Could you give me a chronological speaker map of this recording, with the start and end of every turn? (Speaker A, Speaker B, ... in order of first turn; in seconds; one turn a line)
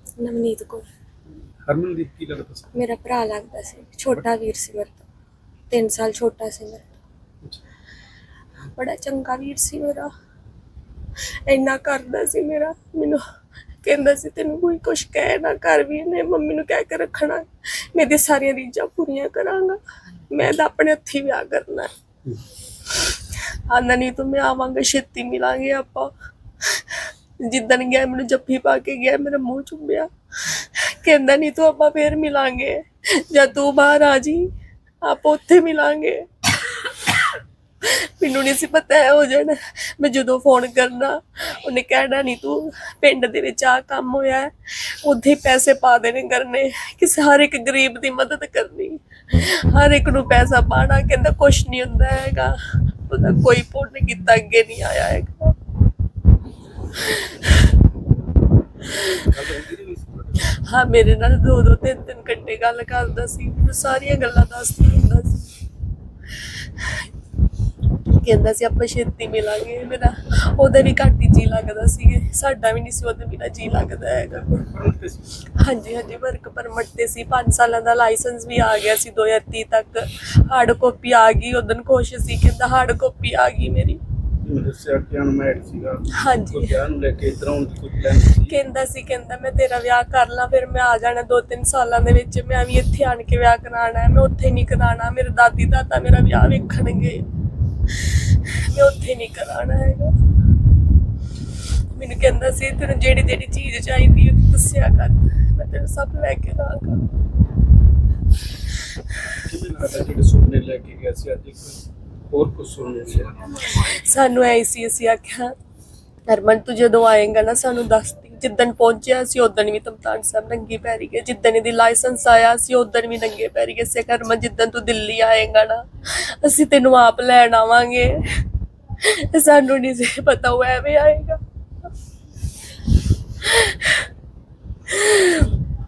Speaker A: 0.2-0.8
Speaker B: 1.6-2.8
Speaker A: 2.7-5.0
Speaker A: 5.7-6.8
Speaker A: 8.7-10.1
Speaker A: 11.5-13.2
Speaker A: 13.8-21.9
Speaker A: 23.1-26.1
Speaker A: 26.6-34.5
Speaker A: 35.0-55.5
Speaker A: 57.1-57.5
Speaker B: 59.0-60.6
Speaker A: 60.5-65.5
Speaker A: 68.1-74.6
Speaker B: 74.5-75.4
Speaker A: 75.6-84.0
Speaker B: 84.4-88.6
Speaker A: 86.2-86.8
Speaker A: 88.5-97.3
Speaker A: 98.0-100.1
Speaker A: 102.0-107.1
Speaker B: 109.4-113.5
Speaker A: 113.7-115.5
Speaker A: 116.3-128.2
Speaker A: 129.0-131.4
Speaker A: 133.4-134.1
Speaker A: 134.9-135.5